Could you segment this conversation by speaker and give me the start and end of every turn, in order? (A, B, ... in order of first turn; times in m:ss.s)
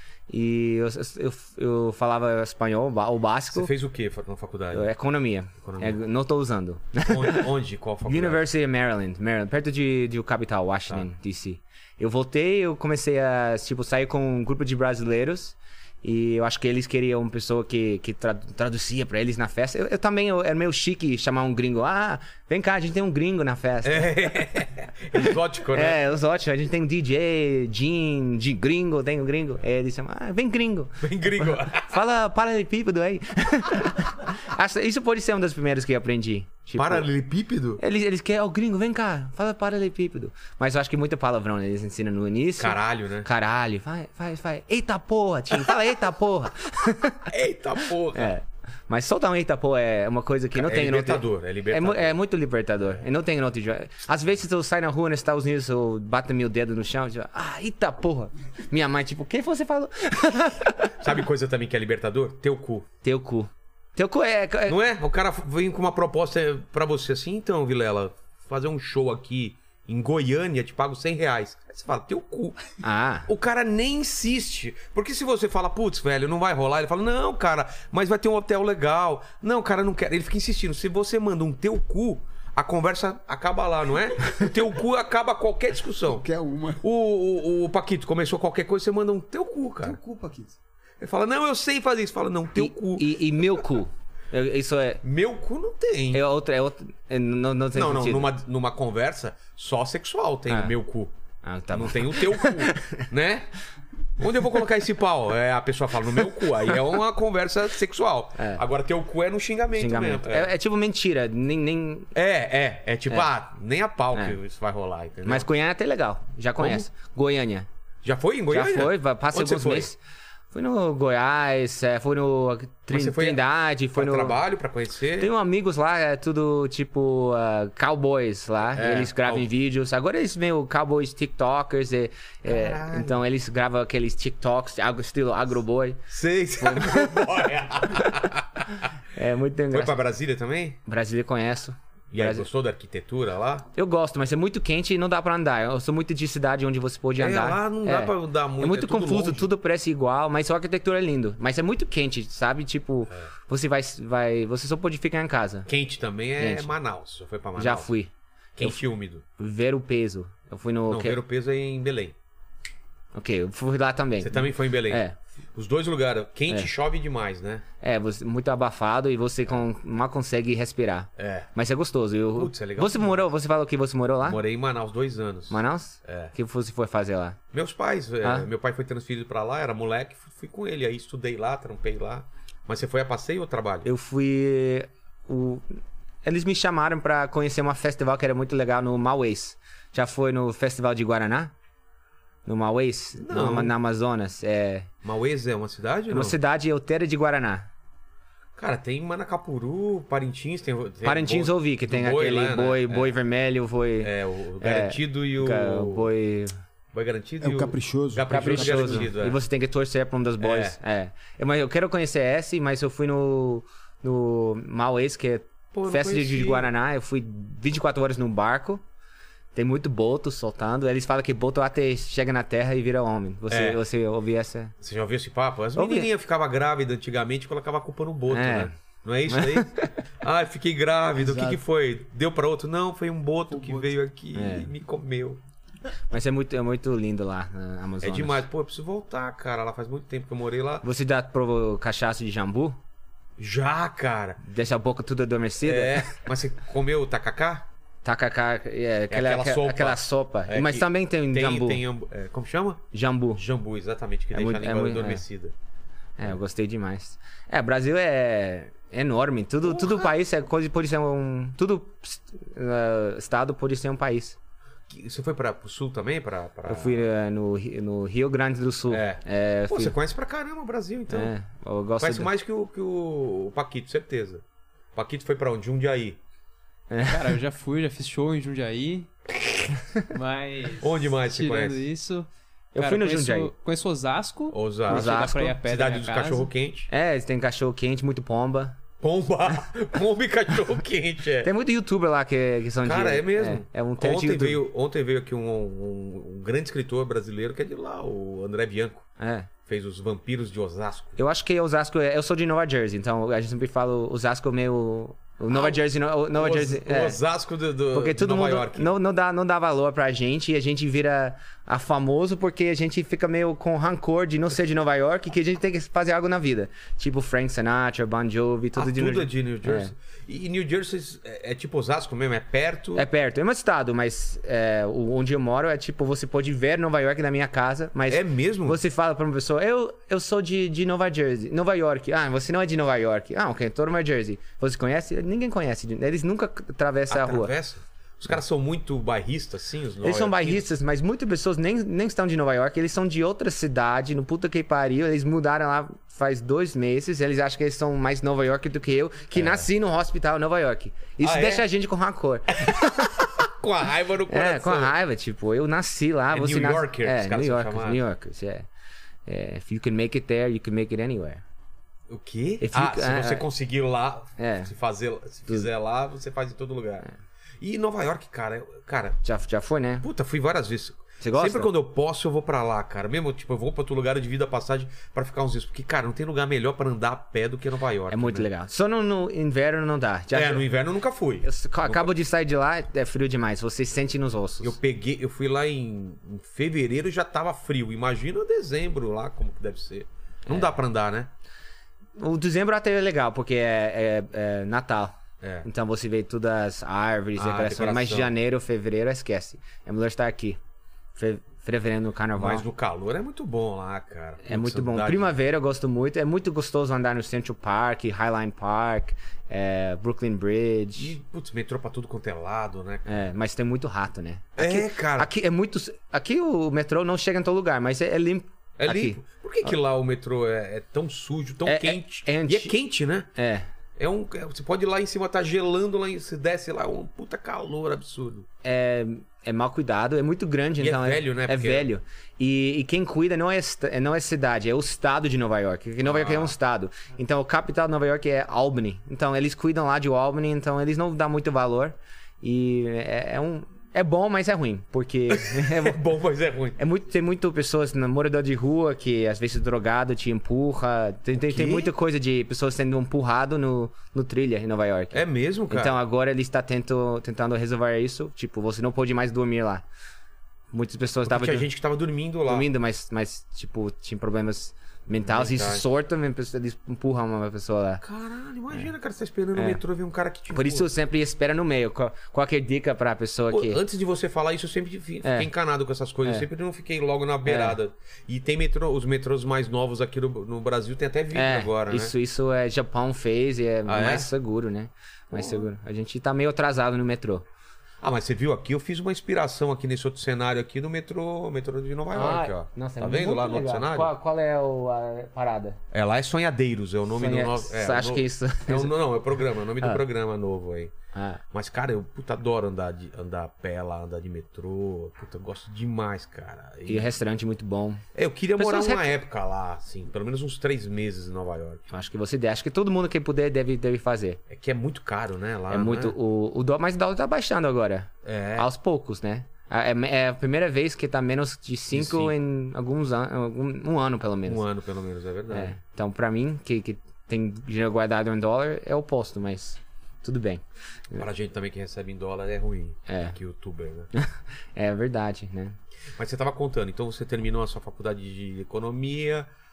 0:00.3-0:03.7 A
0:03.5-0:04.9 B
0:04.7-0:07.5 A
0:05.6-0:06.0 B
0:07.1-0:08.4 B
0:08.0-0:24.5 A
0:23.8-0:26.0 B
0:25.1-0:37.1 A
0:31.0-0:32.0 B
0:36.8-0:37.8 B
0:37.8-0:47.3 A
0:42.6-0:43.3 B
0:45.5-0:45.8 B
0:47.3-0:48.3 B
0:48.1-1:00.9 A
0:50.6-0:52.1 B
1:01.0-1:02.9 B
1:03.0-1:04.8 A
1:04.7-1:12.7 B
1:12.8-1:13.3 A
1:13.2-1:26.2 B
1:26.0-1:26.8 C
1:26.8-1:30.0 B
1:29.8-1:30.6 C
1:31.0-1:33.2 B
1:32.6-1:35.0 A
1:35.0-1:36.2 B
1:36.1-1:38.3 A
1:37.7-1:41.1 B
1:41.4-1:43.1 A
1:41.7-1:43.5 B
1:44.2-1:50.5 B
1:48.4-1:48.6 A
1:49.7-1:52.1 A
1:52.1-1:55.5 B
1:55.2-1:57.7 A
1:56.6-1:56.8 B
1:58.0-1:59.9 B
1:58.5-2:00.0 A
2:00.5-2:04.4 A
2:02.9-2:05.3 B
2:05.2-2:16.0 A
2:08.7-2:09.5 B
2:12.4-2:13.2 B
2:16.1-2:18.9 B
2:16.6-2:17.4 A
2:19.1-2:20.0 A
2:19.7-2:20.8 B
2:20.8-2:22.4 A
2:22.1-2:23.7 B
2:23.7-2:35.7 A
2:27.2-2:29.5 B
2:35.7-2:37.9 B
2:36.4-2:36.7 A
2:37.6-2:38.8 A
2:38.6-2:39.2 B
2:39.4-2:41.2 A
2:40.9-2:42.1 B
2:43.1-2:45.2 A
2:44.2-2:45.0 B
2:45.5-2:47.6 B
2:47.8-2:54.4 A
2:51.2-2:51.5 B
2:52.3-2:53.2 B
2:54.2-2:56.3 B
2:55.5-2:57.4 A
2:57.5-3:03.9 B
3:03.8-3:11.5 A
3:12.4-3:14.9 A
3:13.2-3:13.7 B
3:15.0-3:16.4 B
3:16.1-3:17.7 A
3:18.6-3:23.2 B
3:21.0-3:26.5 A
3:24.0-3:26.1 B
3:26.9-3:29.4 B
3:27.4-3:29.1 C
3:28.3-3:38.8 A
3:30.4-3:30.8 B
3:35.7-3:36.7 B
3:39.5-3:44.7 A
3:43.5-3:43.8 B
3:44.8-3:55.4 B
3:45.8-3:46.1 A
3:48.3-3:48.7 A
3:49.3-3:49.9 A
3:51.2-3:51.6 C
3:53.5-3:53.9 C
3:54.3-3:54.7 A
3:56.1-3:58.4 A
3:58.0-4:00.8 B
4:00.8-4:02.8 A
4:03.4-4:04.4 B
4:04.4-4:06.1 A
4:05.6-4:07.6 B
4:08.0-4:11.8 A
4:09.1-4:15.5 B
4:12.9-4:13.4 A
4:14.3-4:15.2 A
4:16.2-4:24.4 A
4:19.6-4:20.1 B
4:24.9-4:27.0 B
4:26.7-4:29.9 A
4:28.9-4:31.3 B
4:31.1-4:32.3 A
4:32.0-4:34.4 B
4:34.9-4:36.2 B
4:36.9-4:37.4 A
4:37.1-4:39.1 D
4:40.1-4:46.5 D
4:40.8-4:41.9 B
4:42.7-4:43.5 A
4:44.5-4:46.9 B
4:44.9-4:45.6 A
4:46.9-4:48.8 A
4:49.0-4:51.5 B
4:51.4-4:54.6 A
4:52.8-4:59.1 B
4:59.2-4:59.5 A
4:59.7-5:01.2 B
5:01.2-5:07.2 A
5:05.5-5:05.8 B
5:06.3-5:08.9 B
5:07.9-5:19.9 A
5:18.8-5:23.0 B
5:22.9-5:37.5 A
5:28.1-5:28.8 B
5:37.1-5:40.7 B
5:40.0-5:53.1 A
5:49.4-5:49.6 B
5:51.2-5:51.6 B
5:52.5-5:54.9 B
5:54.3-5:58.7 A
5:56.3-5:58.0 B
5:59.2-6:01.4 A
6:02.1-6:07.0 B
6:02.6-6:03.5 A
6:04.4-6:04.7 A
6:07.6-6:09.2 B
6:09.2-6:10.0 A
6:10.0-6:18.5 B
6:11.2-6:11.7 A
6:18.1-6:20.7 A
6:20.3-6:22.1 B
6:21.4-6:24.8 A
6:24.6-6:31.3 B
6:32.2-6:40.6 A
6:35.4-6:35.6 B
6:37.4-6:38.3 B
6:41.2-6:42.6 A
6:42.4-6:45.3 B
6:44.4-6:51.1 A
6:51.0-6:53.2 B
6:53.0-6:59.7 A
6:54.6-6:55.3 B
6:58.8-7:03.3 B
7:01.6-7:02.8 A
7:03.3-7:03.6 A
7:04.0-7:08.5 B
7:08.6-7:26.0 A
7:10.8-7:11.9 B
7:16.0-7:16.5 B
7:25.3-7:26.8 B
7:26.8-7:39.8 A
7:31.3-7:31.9 B
7:35.1-7:36.0 B
7:40.7-7:41.7 A
7:41.2-7:42.7 B
7:42.5-7:48.0 A
7:45.3-7:45.8 B
7:48.0-7:50.9 B
7:49.5-7:49.8 A
7:50.5-7:53.8 A
7:53.5-8:02.1 B
7:55.2-7:55.5 A
7:57.4-7:57.8 A
8:01.3-8:07.4 A
8:03.9-8:04.3 B
8:05.3-8:05.7 B
8:08.0-8:14.1 B
8:12.1-8:15.8 A
8:15.9-8:20.9 B
8:17.1-8:18.9 A
8:21.1-8:21.4 A
8:21.5-8:27.1 B
8:26.9-8:28.0 A
8:28.1-8:31.8 B
8:28.6-8:29.1 A
8:31.9-8:34.4 A
8:34.5-8:36.1 B
8:35.7-8:44.6 A
8:38.2-8:38.7 B
8:41.9-8:42.3 B
8:44.4-8:45.7 B
8:45.5-8:51.2 A
8:51.2-8:54.1 B
8:53.1-8:53.4 A
8:54.1-8:55.8 A
8:56.2-8:59.5 B